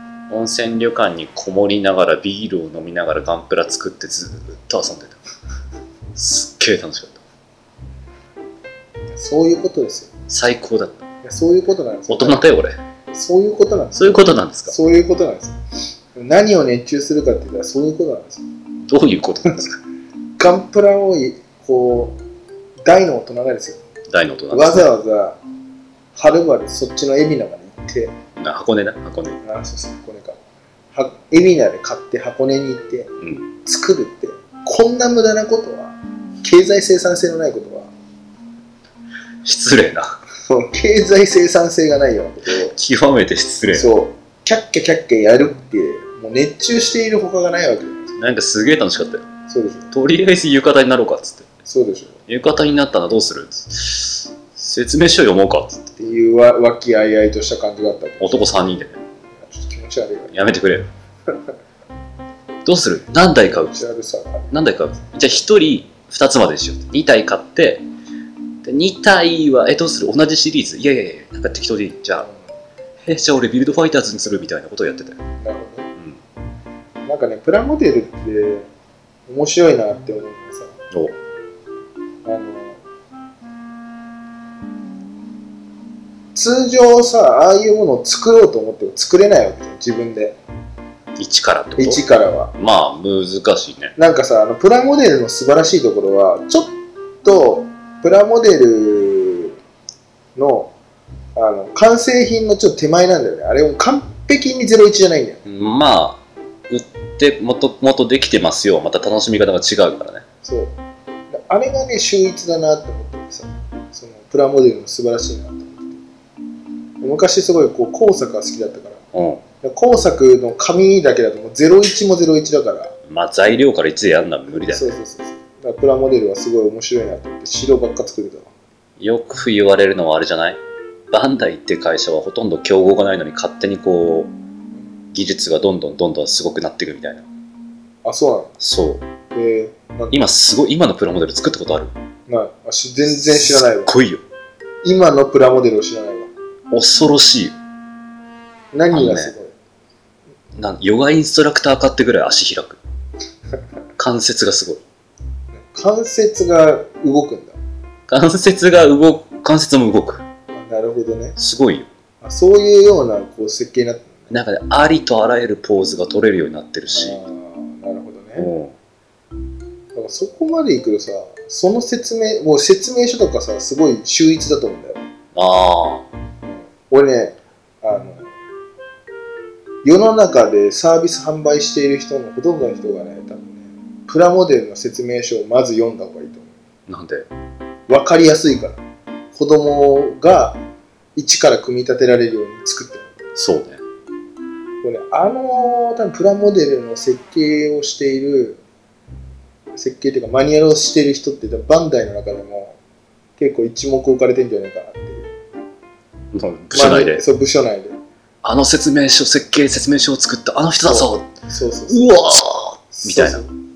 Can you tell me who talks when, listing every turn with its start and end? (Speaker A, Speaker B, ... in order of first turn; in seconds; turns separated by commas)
Speaker A: 0.3-5.2, Speaker A: 6.2-7.2, Speaker B: 9.1-10.1, Speaker A: 10.3-11.1, Speaker B: 11.2-12.4, Speaker A: 12.1-12.8, Speaker B: 13.1-15.6, Speaker A: 13.9-14.8, Speaker B: 16.1-18.5, Speaker A: 18.9-19.8, Speaker B: 20.4-22.2, Speaker B: 22.8-23.8, Speaker A: 24.1-24.9, Speaker B: 24.5-25.4, Speaker B: 26.1-28.1, Speaker A: 28.4-29.4, Speaker B: 29.4-30.4, Speaker B: 30.9-33.1, Speaker A: 33.2-33.5, Speaker B: 33.6-37.9, Speaker A: 39.5-40.2, Speaker B: 40.5-42.7, Speaker A: 42.6-43.9, Speaker B: 43.7-48.1, Speaker A: 48.2-49.3, Speaker B: 49.5-49.9, Speaker A: 49.9-51.5, Speaker B: 51.7-52.2, Speaker A: 52.3-55.9, Speaker B: 56.0-58.5, Speaker A: 58.2-59.0, Speaker B: 59.4-60.3, Speaker A: 60.3-60.9, Speaker A: 62.6-63.8, Speaker B: 63.6-64.6, Speaker A: 64.5-67.8, Speaker A: 68.6-72.3, Speaker A: 73.0-75.2, Speaker B: 75.4-75.9, Speaker B: 77.0-78.7, Speaker B: 79.3-80.7, Speaker B: 82.2-82.8, Speaker B: 86.3-90.4, Speaker A: 91.2-92.0, Speaker B: 91.8-92.5, Speaker A: 92.6-94.0, Speaker B: 94.0-99.6, Speaker B: 100.4-100.7, Speaker B: 101.3-105.4, Speaker A: 105.5-110.2, Speaker B: 110.4-110.7, Speaker B: 111.3-116.0, Speaker B: 117.0-119.0, Speaker A: 119.1-119.4, Speaker B: 119.6-122.9, Speaker A: 123.1-125.0, Speaker B: 124.7-128.5, Speaker A: 129.0-130.6, Speaker A: 131.1-134.3, Speaker A: 135.1-137.3, Speaker B: 138.0-138.5, Speaker A: 138.6-139.0, Speaker B: 139.3-140.2, Speaker A: 140.1-141.9, Speaker B: 142.3-143.9, Speaker A: 143.2-144.2, Speaker B: 144.8-146.3, Speaker A: 146.7-147.6, Speaker B: 148.7-149.5, Speaker A: 148.9-149.3, Speaker A: 150.6-152.8, Speaker A: 154.0-154.8, Speaker B: 155.6-157.6, Speaker A: 158.1-160.2, Speaker B: 160.5-161.4, Speaker A: 161.4-161.9, Speaker B: 162.2-164.3, Speaker A: 164.3-167.2, Speaker B: 166.9-168.5, Speaker A: 168.4-168.7, Speaker B: 169.9-175.1, Speaker A: 175.3-176.1, Speaker B: 176.4-178.3, Speaker B: 179.8-186.5, Speaker A: 186.9-187.3, Speaker B: 187.9-188.8, Speaker B: 189.3-190.6, Speaker B: 191.2-193.2, Speaker A: 193.4-193.8, Speaker B: 194.8-198.6, Speaker B: 199.8-202.8, Speaker B: 203.4-205.3, Speaker A: 206.3-207.2, Speaker B: 206.7-208.0, Speaker A: 208.4-211.3, Speaker B: 210.8-212.0, Speaker A: 211.9-213.4, Speaker B: 213.0-213.5